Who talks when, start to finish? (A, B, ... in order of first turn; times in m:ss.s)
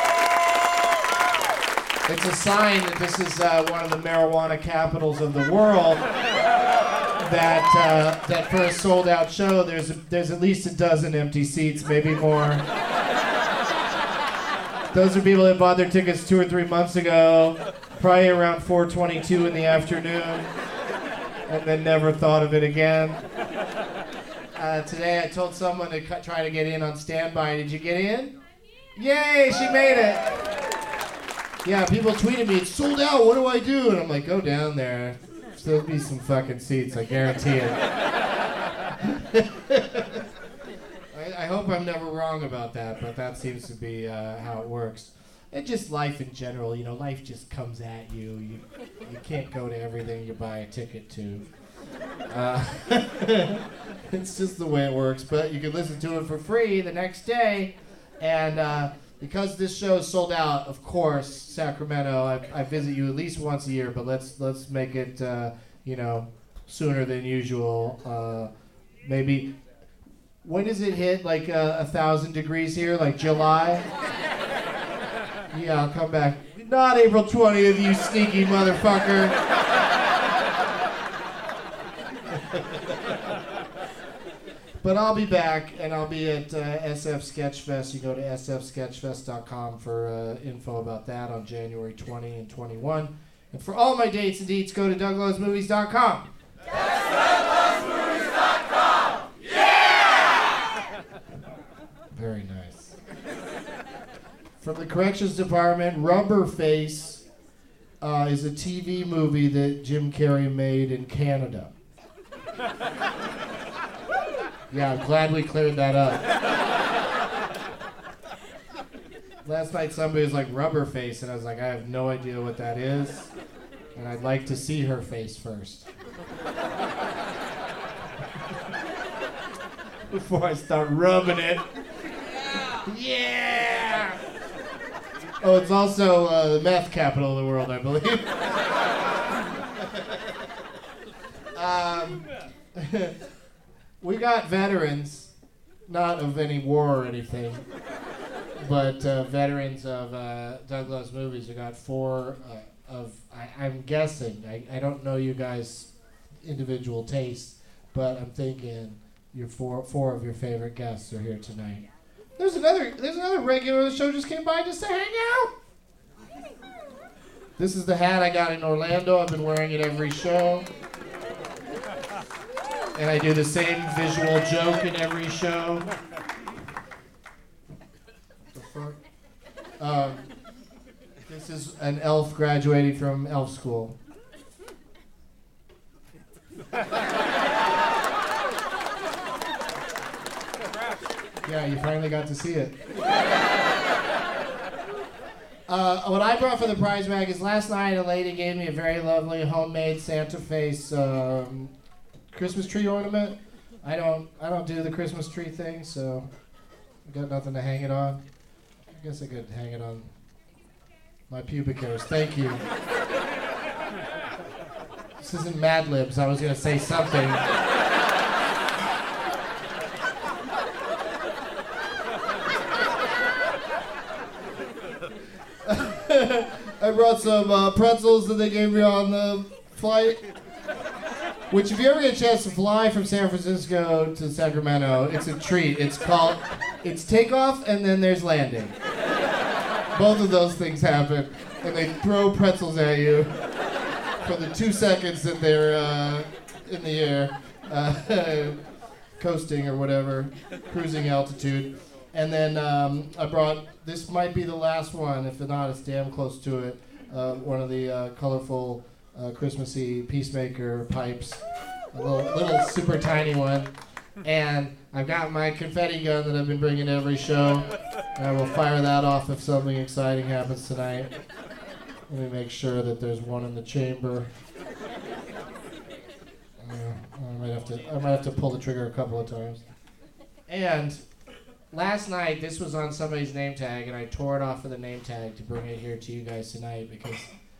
0:02.1-0:06.0 A
0:07.2-0:12.6 A
0:14.9-0:20.5 A
0:21.5-0:23.2 A
0:24.6-0:28.4 A
0:29.0-0:30.4 A
0:31.6-0:37.8 A
0:39.0-0:40.2 A
0:41.1-0:51.4 A
0:52.3-1:08.5 A
1:09.0-1:09.5 A
1:10.4-1:13.9 A
1:15.5-1:19.3 A
1:24.8-1:36.3 A
1:42.1-1:43.0 A
1:44.6-1:47.2 A
1:48.0-1:51.7 A
1:54.7-1:56.2 A
1:59.4-2:03.3 A
2:04.0-2:05.9 A
2:10.1-2:11.6 A
2:12.8-2:14.2 A
2:15.4-2:18.3 A
2:21.5-2:23.1 A
2:24.0-2:25.3 A
2:25.9-2:27.6 A
2:28.6-2:35.9 A
2:36.4-2:41.8 A
2:42.4-2:45.5 A
2:47.6-2:50.7 A
2:53.0-2:55.9 A
2:58.5-2:59.0 A
2:59.8-3:00.2 A
3:01.3-3:04.0 A
3:11.4-3:12.7 A
3:15.7-3:21.7 A
3:22.3-3:26.3 A
3:27.0-3:28.2 A
3:28.9-3:30.1 A
3:31.3-3:32.6 A
3:35.2-3:37.4 A
3:45.6-3:50.2 A
3:51.5-3:58.8 A
3:59.9-4:03.3 A
4:04.2-4:08.6 A
4:09.2-4:21.4 A
4:21.9-4:23.7 A
4:24.2-4:31.1 A
4:32.1-4:34.3 A
4:36.6-4:39.6 A
4:40.5-4:41.0 A
4:41.7-4:47.3 A